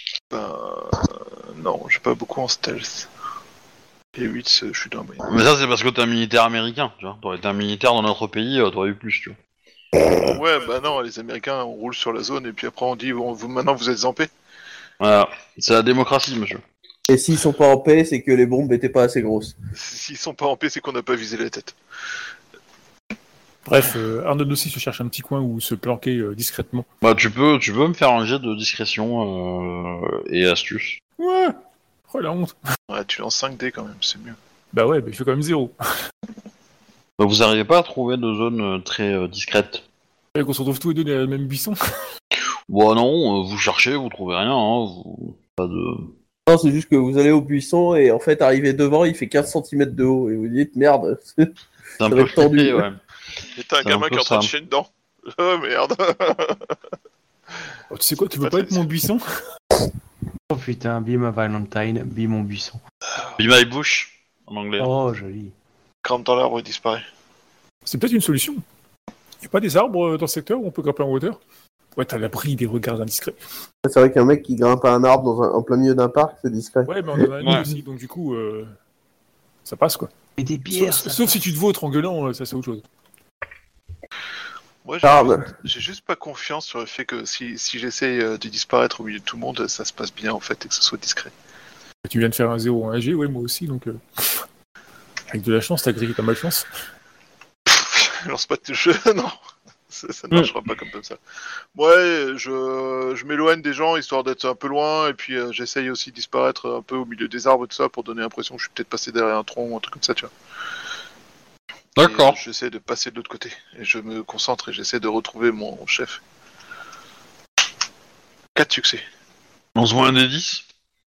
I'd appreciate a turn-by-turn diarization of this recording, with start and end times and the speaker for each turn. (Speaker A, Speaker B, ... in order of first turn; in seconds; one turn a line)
Speaker A: 0.3-3.1
Speaker A: 4.2-5.2
Speaker B: 5.2-9.4
Speaker A: 10.2-14.3
Speaker B: 15.0-16.6
Speaker C: 17.1-19.6
Speaker A: 19.8-21.8
Speaker D: 23.6-26.9
Speaker B: 27.0-31.0
Speaker D: 31.2-31.6
Speaker D: 32.1-32.5
Speaker A: 32.9-34.4
Speaker D: 34.7-35.7
Speaker B: 37.2-39.8
Speaker D: 40.4-41.8
Speaker B: 42.7-46.1
Speaker C: 46.5-51.5
Speaker B: 52.0-53.0
Speaker C: 52.1-52.9
Speaker A: 53.5-56.7
Speaker B: 53.8-54.5
Speaker D: 57.9-59.2
Speaker A: 58.4-58.9
Speaker E: 60.5-62.8
Speaker B: 63.4-64.9
Speaker E: 64.8-65.5
Speaker A: 66.0-67.0
Speaker D: 67.9-68.6
Speaker D: 69.4-71.4
Speaker D: 72.0-73.4
Speaker C: 73.8-77.5
Speaker D: 76.9-78.7
Speaker D: 79.7-80.1
Speaker E: 80.4-81.3
Speaker D: 80.7-82.8
Speaker A: 84.8-91.3
Speaker C: 85.0-85.5
Speaker D: 92.0-94.4
Speaker D: 95.3-96.7
Speaker A: 97.7-99.4
Speaker A: 99.9-101.2
Speaker A: 101.8-110.3
Speaker B: 112.0-112.4
Speaker A: 112.0-116.2
Speaker A: 118.5-119.0
Speaker B: 119.8-120.6